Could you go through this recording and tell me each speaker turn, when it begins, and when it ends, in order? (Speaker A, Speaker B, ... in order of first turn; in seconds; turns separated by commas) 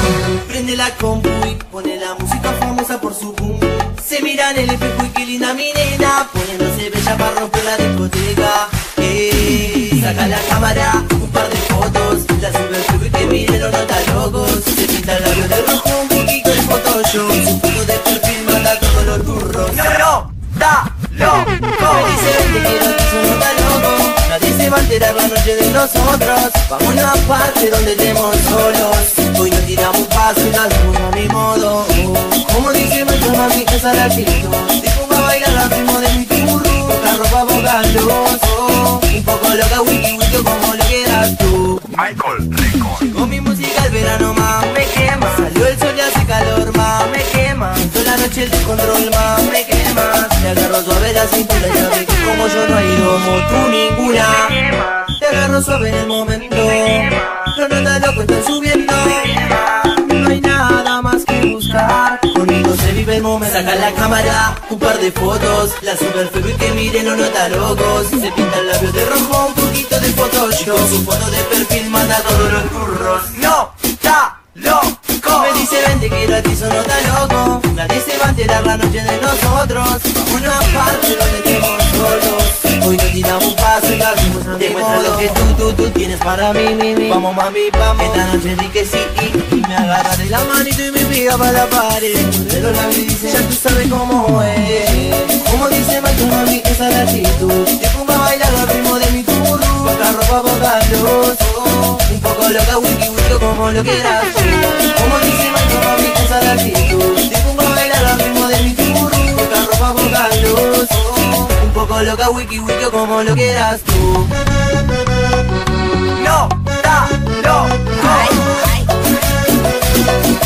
Speaker A: 0.5-41.9, Speaker A: 43.0-114.3, Speaker A: 116.2-118.8